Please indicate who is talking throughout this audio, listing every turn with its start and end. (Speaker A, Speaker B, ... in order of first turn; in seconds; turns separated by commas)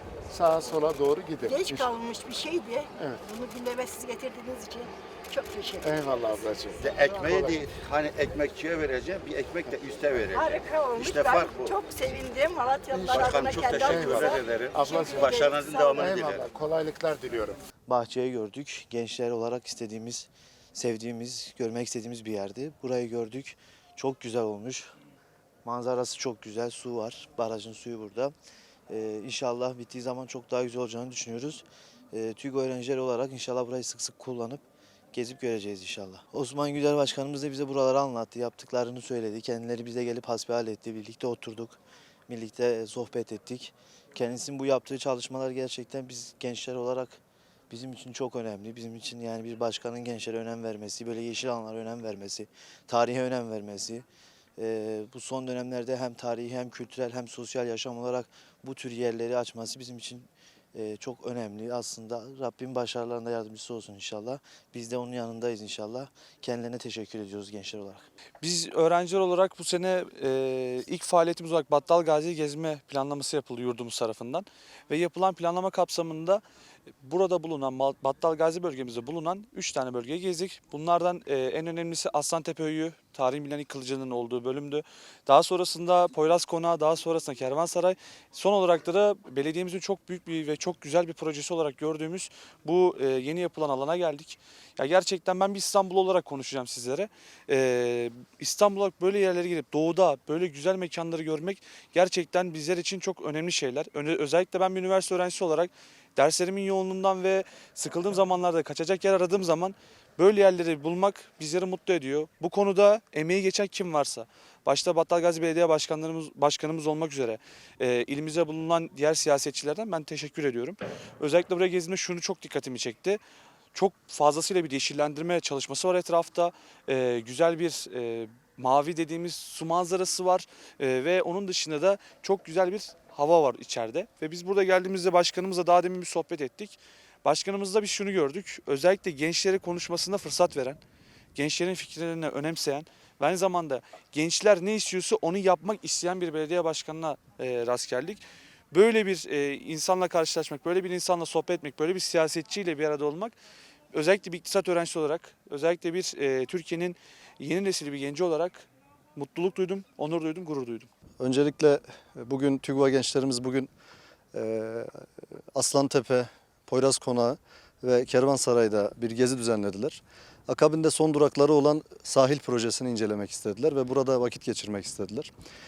Speaker A: 0.3-1.9, Speaker B: 1.4-6.2, Speaker A: 3.0-3.2, Speaker A: 5.8-7.7, Speaker C: 6.8-11.8, Speaker B: 10.3-16.1, Speaker A: 12.9-15.4, Speaker C: 13.0-16.5, Speaker A: 15.9-17.6, Speaker D: 17.9-24.9, Speaker D: 25.6-28.3, Speaker D: 28.9-47.2, Speaker D: 47.7-54.0, Speaker D: 54.6-68.1, Speaker E: 68.4-76.4, Speaker E: 77.0-123.2, Speaker E: 123.7-140.8, Speaker E: 141.3-153.3, Speaker E: 153.9-160.9, Speaker F: 161.2-163.7, Speaker F: 164.3-175.3